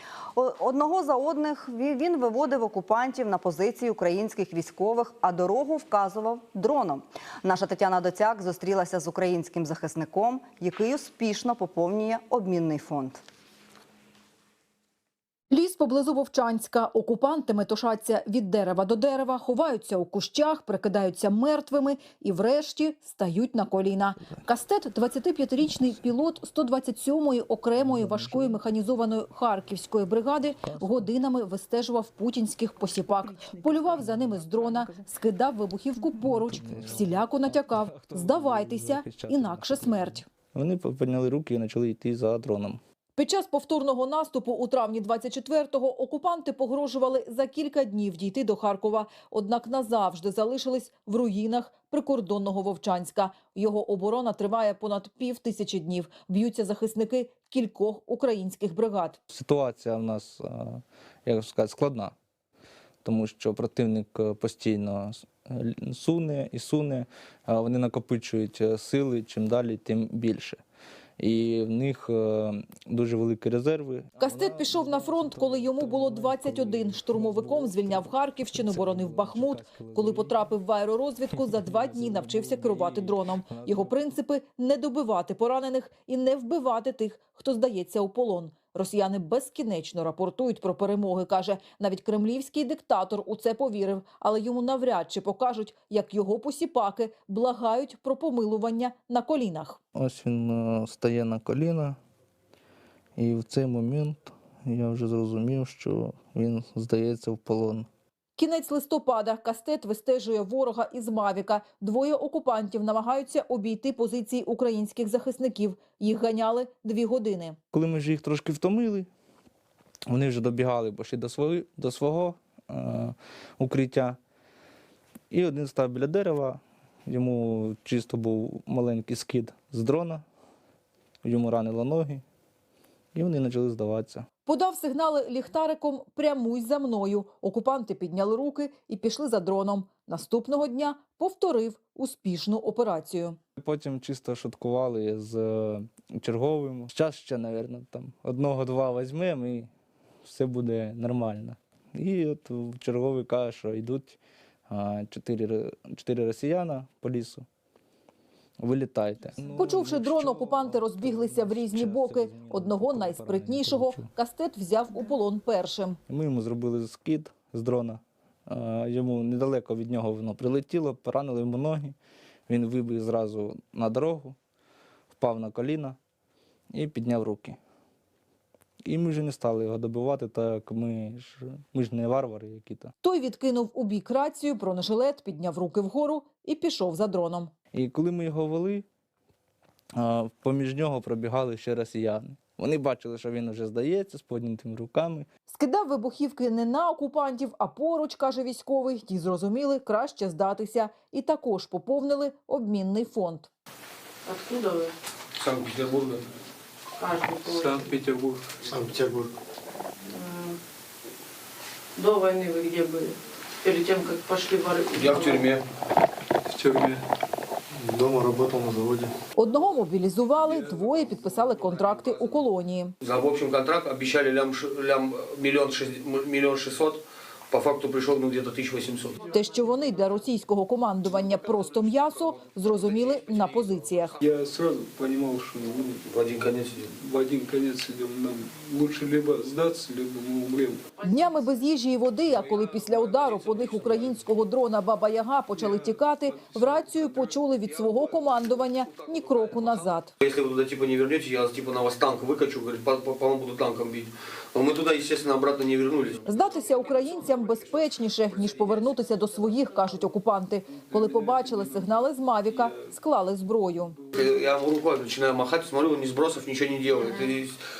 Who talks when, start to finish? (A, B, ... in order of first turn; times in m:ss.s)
0:00.3-0:13.2 A
0:15.5-0:40.2 B
0:27.8-0:28.6 C
0:30.6-0:31.1 C
0:36.3-0:42.8 C
0:43.2-0:59.2 B
0:59.3-1:02.1 C
1:03.0-1:10.6 C
1:11.2-1:20.4 C
1:14.2-1:39.8 B
1:21.3-1:24.1 C
1:39.9-1:42.0 C
1:43.2-1:47.9 C
1:48.4-1:57.6 B
1:57.7-1:59.1 C
2:00.1-2:04.2 C
2:05.3-2:10.2 C
2:11.2-2:12.2 C
2:13.1-2:14.2 C
2:14.4-2:23.4 B
2:23.6-2:29.7 C
2:30.2-2:37.4 C
2:38.6-2:44.1 C
2:39.5-2:46.0 B
2:46.1-2:52.0 C
2:52.5-2:54.4 C
2:55.1-2:56.0 C
2:56.7-2:57.6 C
2:58.8-3:02.9 C
3:03.0-3:07.5 B
3:07.7-3:08.8 C
3:10.0-3:15.3 C
3:15.5-3:23.5 B
3:24.2-3:24.9 D
3:25.4-3:26.3 E
3:27.0-3:27.9 D
3:27.4-3:28.8 F
3:28.6-3:29.3 G
3:30.0-3:30.6 D
3:32.0-3:35.4 D
3:34.9-3:35.6 E
3:36.5-3:37.0 F
3:37.7-3:39.2 G
3:39.4-3:42.9 B
3:40.4-3:42.4 F
3:43.0-3:49.3 E
3:49.1-3:50.3 D
3:49.3-3:54.2 B
3:51.0-3:54.2 E
3:54.2-3:56.1 F
3:56.0-3:56.9 E
3:56.9-4:00.8 F
4:00.9-4:01.5 D
4:01.0-4:10.1 B
4:02.2-4:04.2 E
4:05.6-4:05.9 F
4:06.2-4:19.0 E
4:16.2-4:24.0 B
4:19.2-4:20.1 D
4:20.7-4:22.9 F
4:23.7-4:24.3 F
4:24.1-4:27.6 E